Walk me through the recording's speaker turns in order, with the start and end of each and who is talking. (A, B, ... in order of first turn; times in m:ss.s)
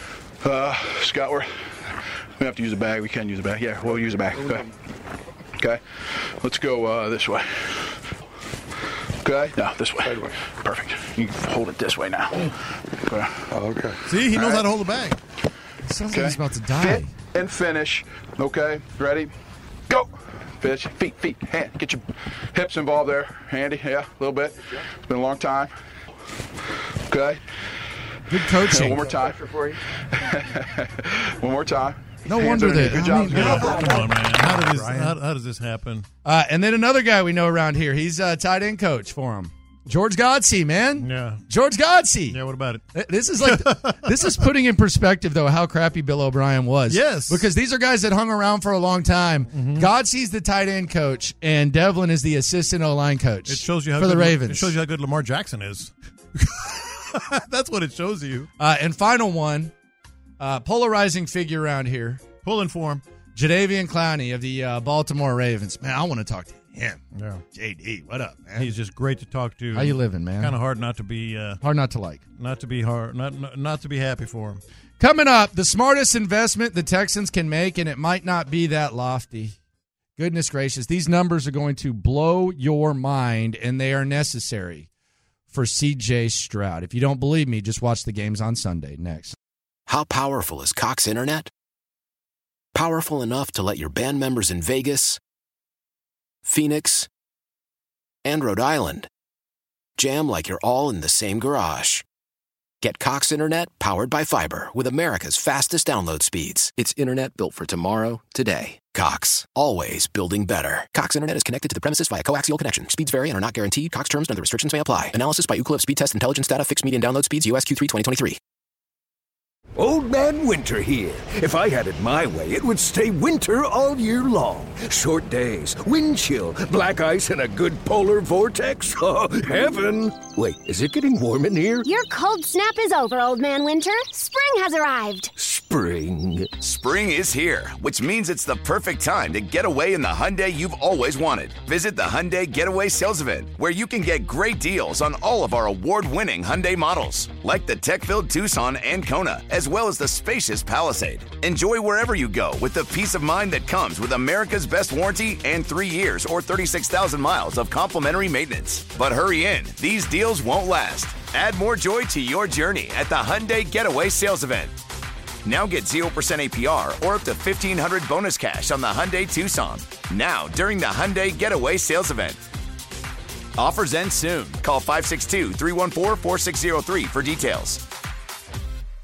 0:00.4-0:01.5 A
0:02.4-0:04.7 A
0:05.6-0:07.9 A
0:09.2-0:13.3 A
0:14.0-0:15.2 B
0:14.1-0:14.7 A
0:15.8-0:17.1 C
0:16.1-0:19.3 A
0:19.9-0:25.7 A
0:27.1-0:27.4 A
0:28.3-0:29.1 C
0:28.6-0:34.0 A
0:32.2-0:35.1 C
0:33.3-0:36.0 B
0:36.2-0:42.4 C
0:41.0-0:41.4 B
0:42.3-0:42.8 B
0:42.9-0:54.7 C
0:43.4-0:44.4 B
0:46.9-0:47.5 B
0:49.5-0:49.9 B
0:53.5-0:58.5 B
0:58.6-0:59.7 C
1:00.4-1:02.2 C
1:02.4-1:03.0 B
1:03.3-1:07.0 C
1:07.1-1:07.4 B
1:07.5-1:08.7 C
1:08.6-1:11.6 B
1:09.7-1:10.6 C
1:11.6-1:12.2 C
1:12.4-1:14.6 B
1:15.0-1:19.6 C
1:20.2-1:24.9 C
1:25.5-1:29.4 C
1:29.9-1:31.5 D
1:32.7-1:35.2 D
1:36.4-1:37.1 D
1:38.2-1:39.1 D
1:40.0-1:42.0 D
1:42.8-1:58.4 D
1:59.8-2:11.9 E
2:11.8-2:15.3 F
2:15.4-2:16.5 E
2:16.6-2:44.7 G
2:45.4-2:52.4 G
2:53.6-2:57.8 G